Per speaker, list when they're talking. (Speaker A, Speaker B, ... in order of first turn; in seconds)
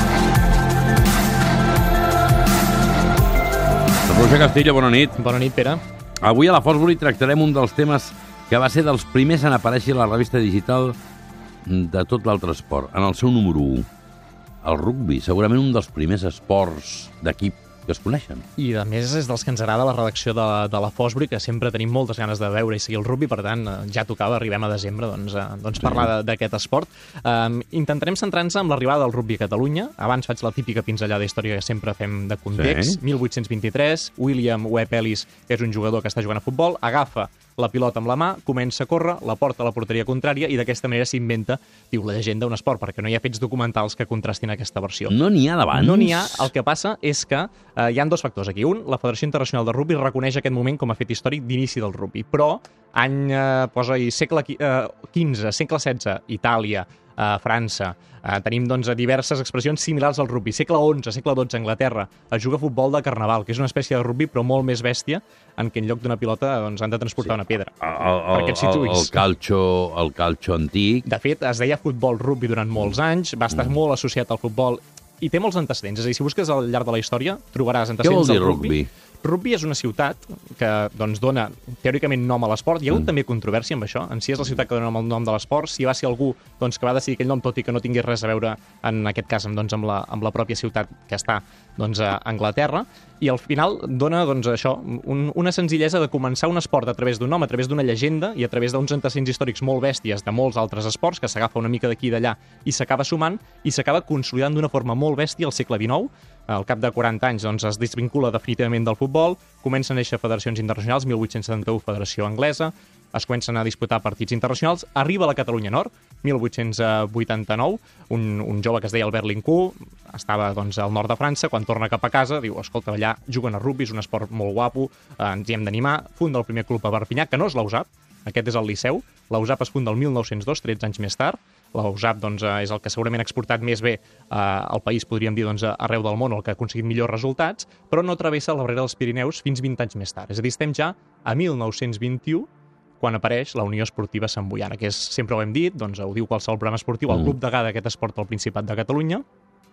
Speaker A: 4.1-5.2, 6.2-11.0, 11.6-13.9, 14.6-18.4, 25.8-26.1, 32.5-33.0, 45.1-46.5, 67.2-71.0, 78.0-78.9
Speaker B: 5.2-5.8, 18.6-45.2, 45.7-69.2, 71.0-142.5, 143.0-149.2